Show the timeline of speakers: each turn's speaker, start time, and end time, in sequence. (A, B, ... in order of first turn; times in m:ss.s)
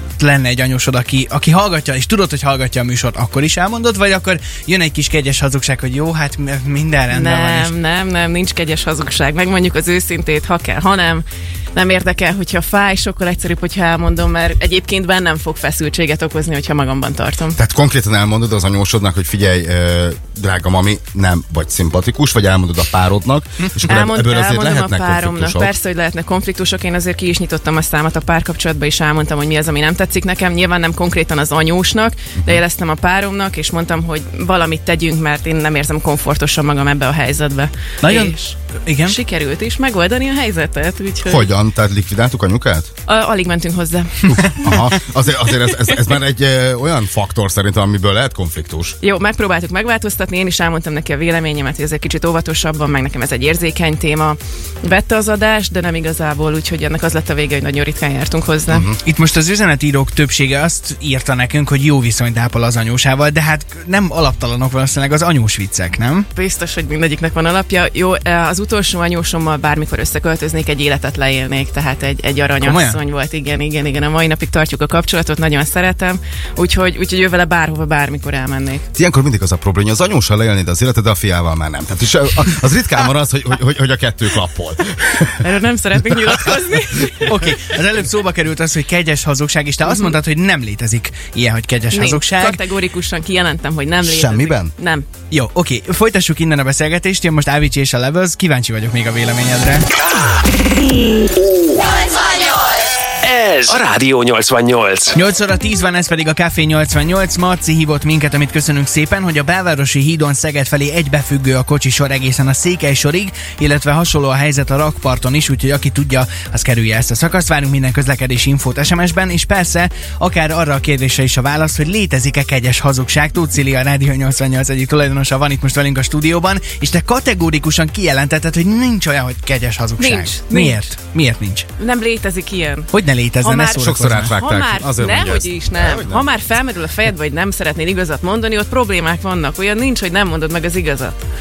0:00.2-0:07.7 A
0:07.1-0:17.6 B
0:17.6-0:25.7 C
0:23.8-0:41.5 B
0:38.0-0:39.2 A
0:41.2-0:42.9 C
0:43.1-0:44.8 B
0:44.4-0:49.0 C
0:49.0-0:58.9 B
0:58.7-0:59.0 C
0:59.0-1:06.3 A
1:06.4-1:18.8 B
1:12.6-1:13.0 A
1:19.0-1:25.5 C
1:25.4-1:27.5 B
1:27.2-1:32.6 A
1:29.9-1:30.1 B
1:31.9-1:35.1 B
1:34.0-1:34.7 C
1:35.3-1:39.9 A
1:43.2-1:45.2 D
1:45.1-2:11.7 A
2:10.0-2:10.8 B
2:11.8-2:12.9 B
2:12.9-2:14.4 A
2:13.4-2:21.2 B
2:13.8-2:16.3 C